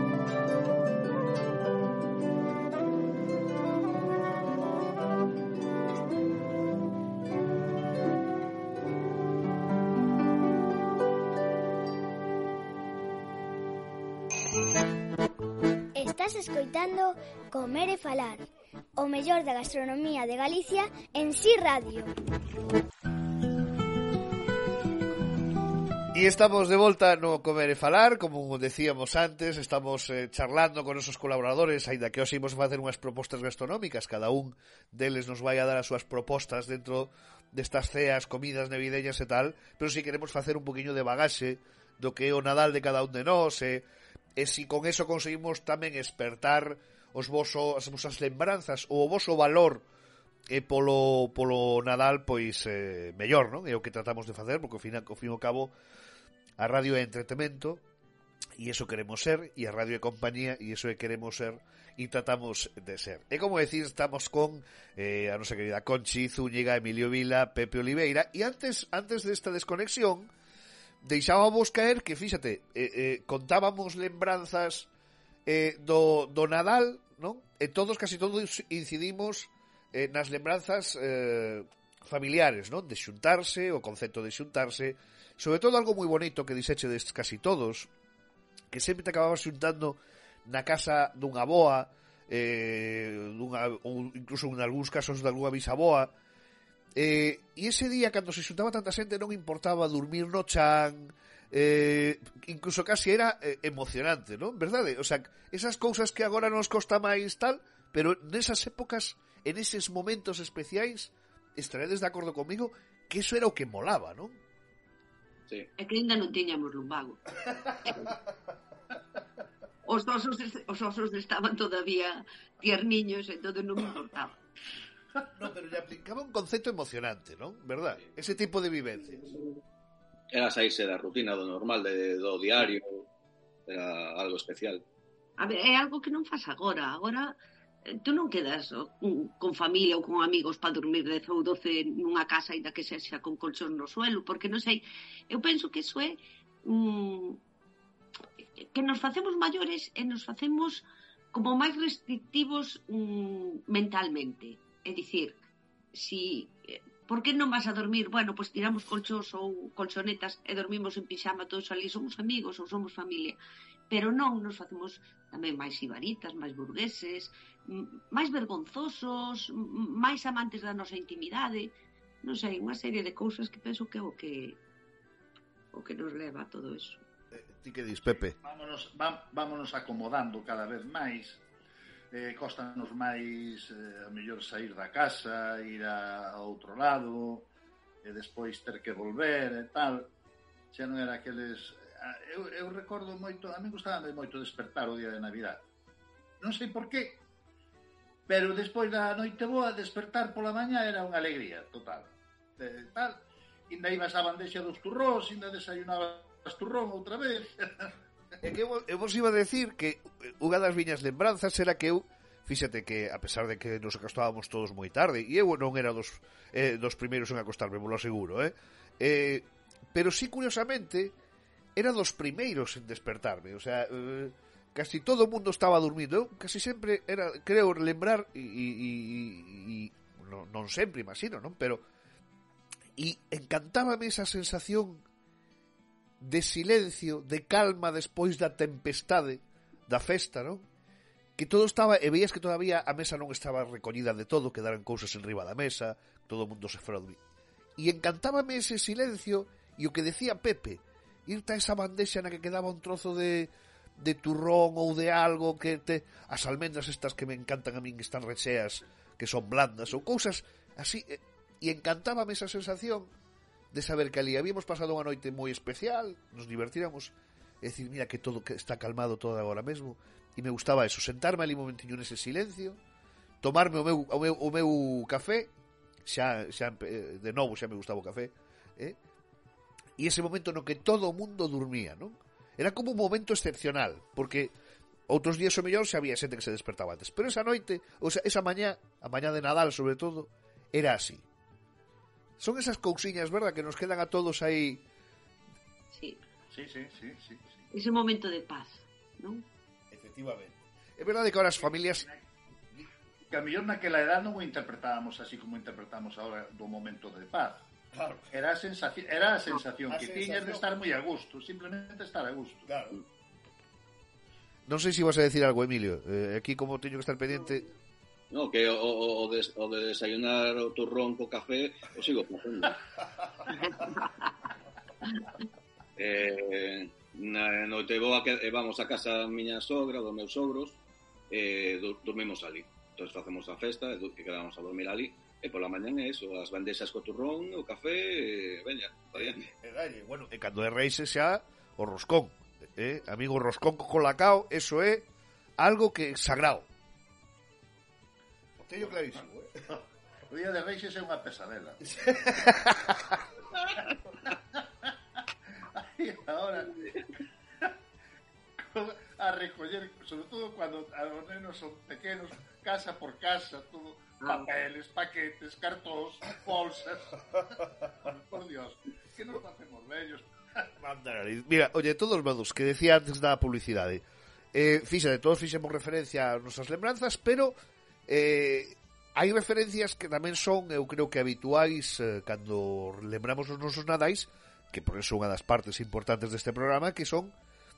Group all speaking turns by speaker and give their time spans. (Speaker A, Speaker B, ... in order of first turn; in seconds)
Speaker A: 15.9-22.1
Speaker B: 26.1-43.9, 44.4-49.9, 50.5-55.7, 56.6-57.8, 58.6-70.3, 71.0-74.9, 75.5-87.9, 88.7-96.1, 97.0-114.4, 125.3-129.3, 177.3-178.4, 208.4-221.2, 221.8-231.8, 233.0-235.0, 236.2-240.7, 241.4-247.2, 247.8-263.1, 263.7-272.8, 273.4-275.5, 276.1-279.0, 280.0-284.5, 285.1-291.2, 292.4-294.8, 299.9-302.1, 307.9-308.3, 309.9-310.6, 312.7-313.0, 314.7-317.7, 339.1-345.1, 345.6-346.7, 348.6-349.6, 351.9-353.2, 370.8-377.6, 378.1-387.3
Speaker C: 115.8-117.2, 117.8-118.1, 119.9-124.4, 129.2-129.6, 135.4-147.4, 148.6-155.4, 155.9-163.4, 163.9-174.6, 175.7-177.0, 295.9-296.2, 297.7-299.4, 364.2-364.5
Speaker D: 130.3-133.1, 133.7-134.8, 318.3-322.8, 326.0-330.8, 331.3-339.5
Speaker E: 178.4-181.4, 182.1-187.5, 188.0-190.1, 190.7-195.6, 196.4-197.2, 198.3-207.9, 296.5-297.7, 301.6-302.2, 303.3-307.7, 308.3-312.7, 349.7-352.1, 353.7-354.9, 355.7-357.0, 358.6-370.7